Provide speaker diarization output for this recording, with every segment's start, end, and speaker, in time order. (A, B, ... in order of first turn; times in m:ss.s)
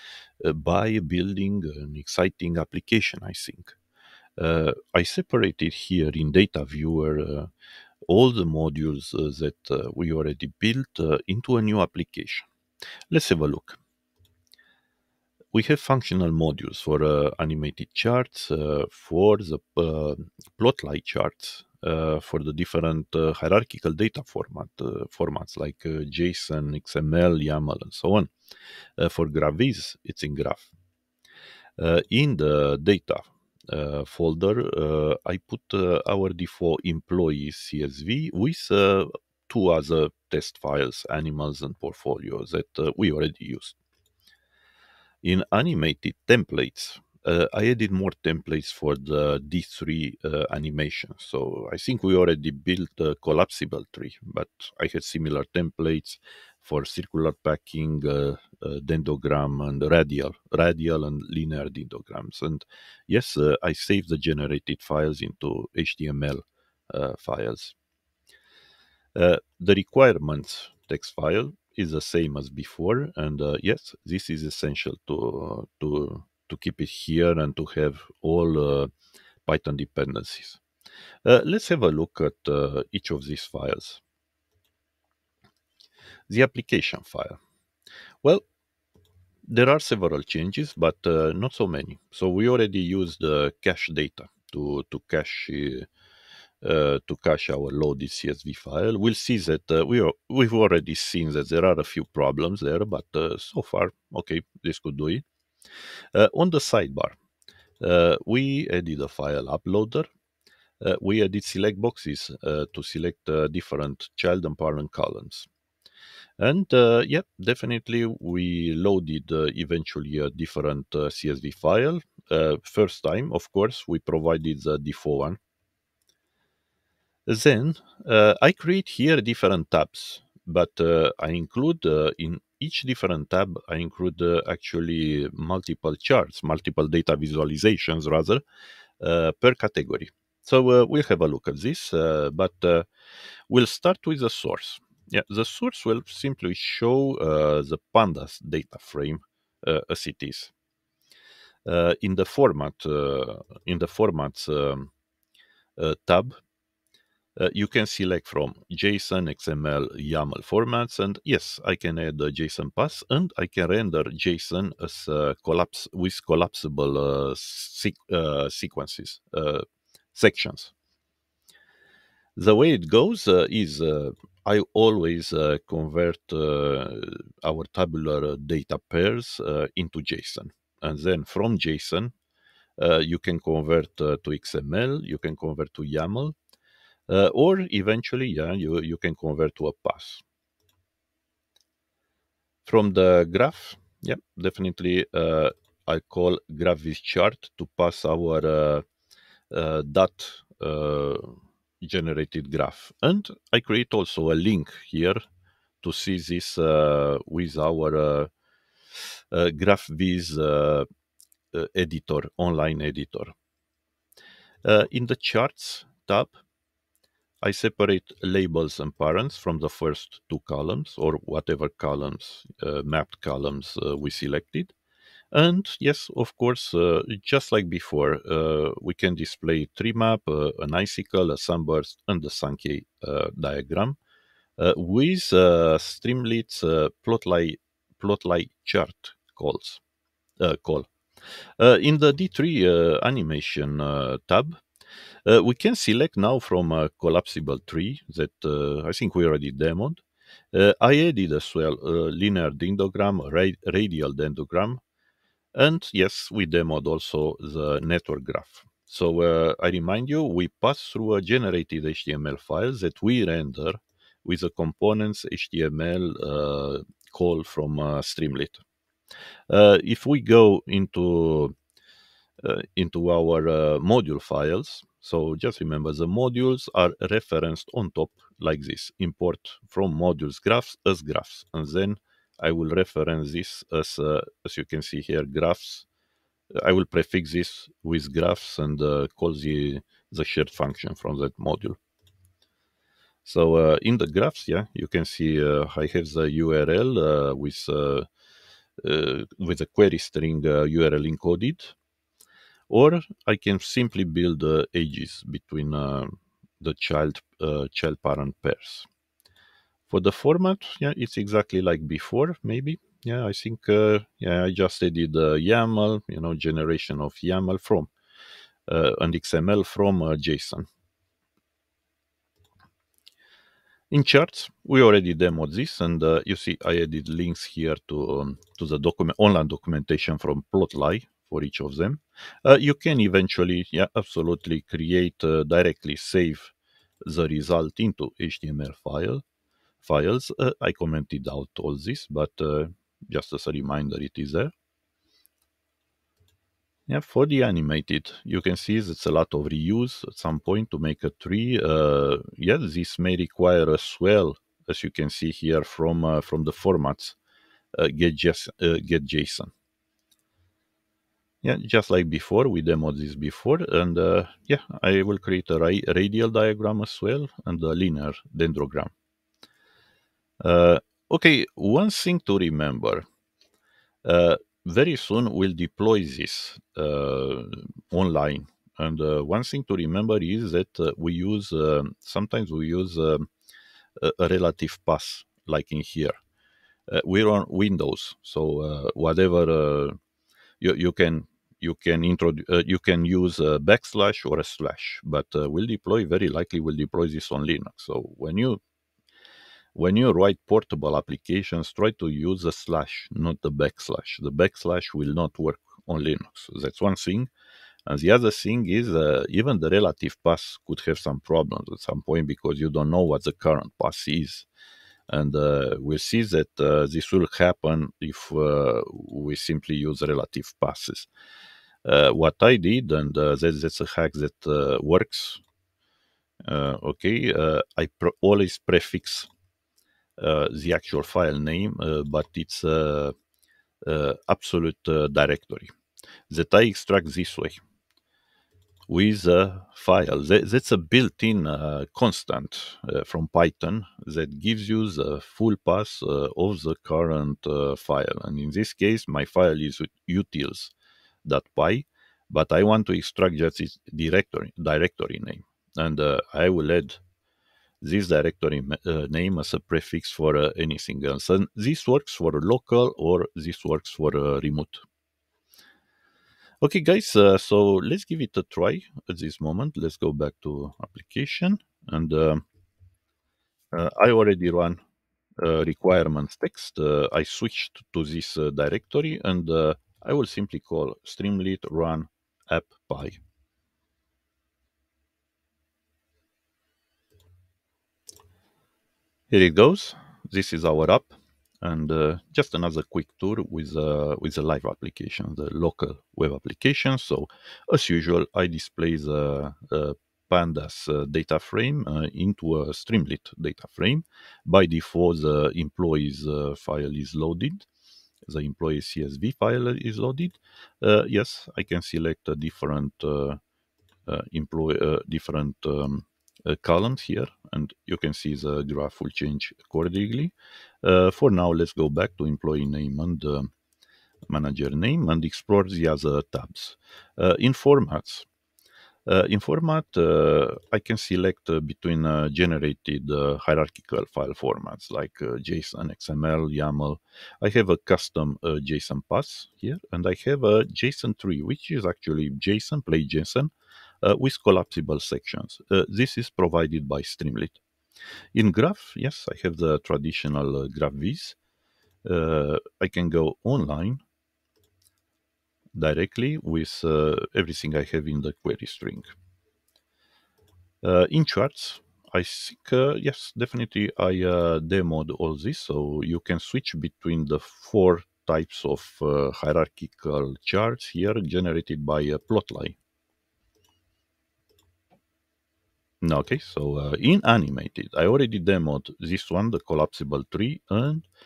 0:00.4-0:03.8 A
0:04.4-0:07.5 A
0:08.0-0:12.5 A
0:13.1-0:13.8 A
0:15.5-0:28.3 A
0:29.0-0:30.7 A
0:31.8-0:43.8 A
0:45.2-1:07.7 A
1:09.1-1:18.9 A
1:19.4-1:20.6 A
1:21.2-1:24.0 A
1:26.3-1:27.4 A
1:29.4-1:35.9 A
1:36.6-1:45.2 A
1:46.1-1:47.2 A
1:47.8-1:50.1 A
1:50.8-1:55.5 A
1:56.4-2:05.4 A
2:07.3-2:18.4 A
2:19.0-2:22.9 A
2:23.5-2:30.5 A
2:31.6-2:34.9 A
2:35.8-2:36.4 A
2:37.4-2:50.7 A
2:52.4-3:02.1 A
3:02.8-3:06.4 A
3:07.1-3:10.2 A
3:12.6-3:18.8 A
3:19.5-3:25.2 A
3:25.8-3:28.3 A
3:29.3-3:30.9 A
3:31.5-3:33.3 A
3:34.6-3:36.4 A
3:37.4-3:44.7 A
3:45.3-3:54.0 A
3:54.6-3:59.8 A
4:00.4-4:00.9 A
4:01.6-4:04.6 A
4:05.2-4:14.8 A
4:15.5-4:28.6 A
4:29.5-4:31.5 A
4:32.4-4:45.9 A
4:46.5-4:51.8 A
4:53.2-4:58.1 A
4:58.8-5:01.7 A
5:02.7-5:08.9 A
5:09.9-5:17.9 A
5:18.7-5:20.7 A
5:23.9-5:39.2 A
5:39.8-5:44.5 A
5:46.9-5:57.2 A
5:57.7-5:59.5 A
6:01.4-6:08.9 A
6:10.4-6:13.1 A
6:14.0-6:23.3 A
6:24.0-6:26.2 A
6:26.9-6:30.0 A
6:30.6-6:38.6 A
6:39.7-6:47.3 A
6:47.8-6:54.5 A
6:55.1-7:01.1 A
7:01.8-7:05.4 A
7:06.4-7:09.3 A
7:10.2-7:13.1 A
7:13.8-7:15.7 A
7:16.3-7:17.6 A
7:18.9-7:30.7 A
7:31.2-7:37.0 A
7:37.8-7:44.8 A
7:46.6-7:52.4 A
7:53.7-7:54.8 A
7:55.4-8:03.2 A
8:09.3-8:27.6 A
8:28.2-8:33.4 A
8:34.1-8:43.5 A
8:44.3-8:48.3 A
8:49.0-9:03.5 A
9:04.0-9:07.6 A
9:08.3-9:11.4 A
9:12.0-9:14.0 A
9:15.7-9:19.1 A
9:20.8-9:32.8 A
9:36.0-9:41.1 A